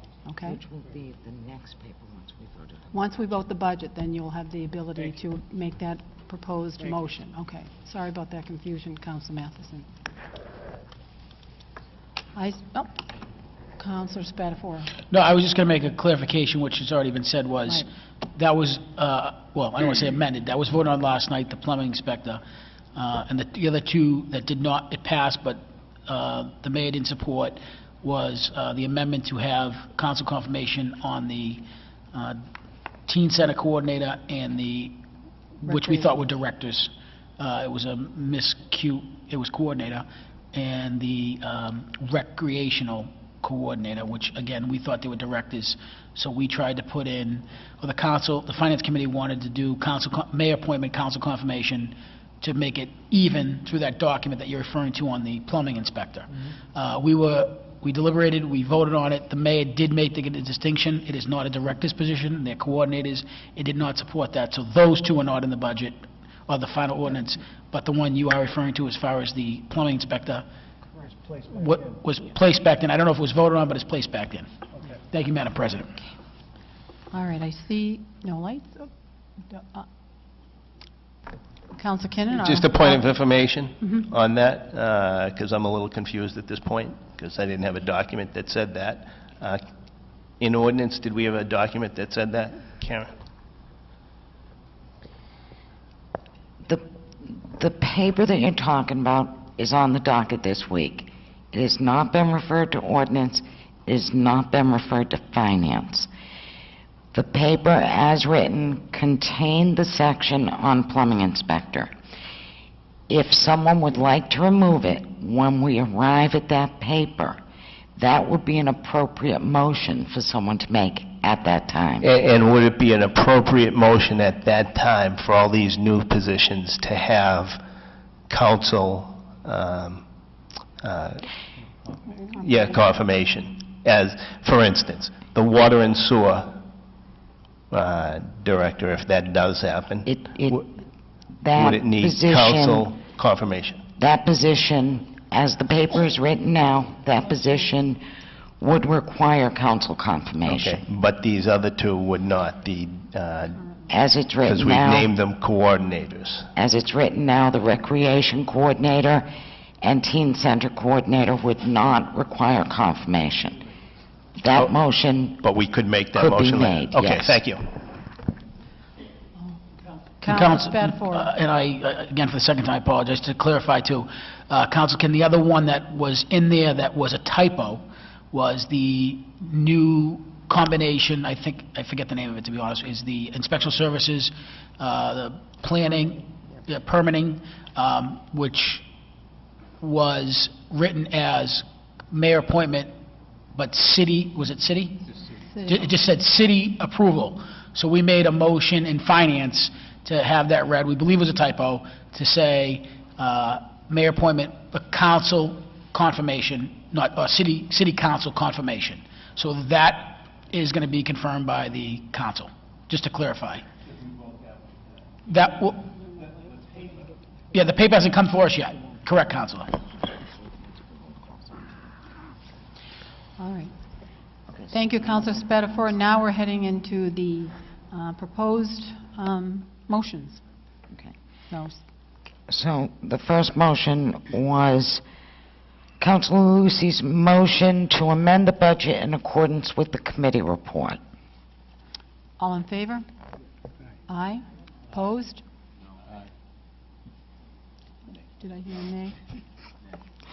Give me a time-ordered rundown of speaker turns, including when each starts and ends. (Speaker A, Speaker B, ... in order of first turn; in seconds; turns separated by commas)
Speaker A: 0.2-0.6, Speaker B: 0.4-2.9, Speaker A: 2.9-9.9, Speaker A: 12.3-12.9, Speaker A: 13.8-15.0, Speaker C: 15.1-22.4, Speaker C: 22.9-32.4, Speaker C: 33.1-35.0, Speaker C: 35.6-70.5, Speaker A: 35.7-36.0, Speaker C: 71.5-74.5, Speaker C: 75.1-76.0, Speaker A: 77.1-78.9, Speaker A: 79.5-79.9, Speaker A: 81.7-83.0, Speaker D: 82.3-89.6, Speaker D: 90.4-93.1, Speaker B: 96.7-106.1, Speaker B: 107.1-111.9, Speaker B: 113.1-117.4, Speaker B: 118.0-122.1, Speaker D: 122.0-127.6, Speaker D: 128.3-130.1, Speaker D: 130.8-131.3, Speaker A: 132.1-132.4, Speaker D: 132.4-136.6, Speaker D: 137.7-140.6, Speaker B: 140.1-140.7, Speaker B: 141.4-142.9, Speaker D: 141.5-143.8, Speaker B: 144.0-148.0, Speaker B: 148.6-150.8, Speaker D: 150.5-153.7, Speaker B: 153.9-155.1, Speaker D: 154.4-156.5, Speaker B: 156.6-159.3, Speaker B: 159.8-163.6, Speaker B: 164.4-165.4, Speaker D: 165.4-167.7, Speaker B: 166.1-167.4, Speaker A: 170.2-171.3, Speaker C: 170.2-188.8, Speaker C: 189.8-192.9, Speaker C: 193.5-195.1, Speaker A: 195.5-195.9, Speaker C: 195.7-213.7, Speaker C: 215.3-215.9, Speaker C: 217.5-219.8, Speaker B: 220.0-221.8, Speaker A: 223.4-223.7, Speaker B: 224.5-225.8, Speaker A: 224.7-230.4, Speaker A: 231.5-231.8, Speaker B: 232.5-235.0, Speaker B: 236.0-241.0, Speaker A: 242.4-243.1, Speaker A: 244.1-245.4, Speaker A: 248.3-249.3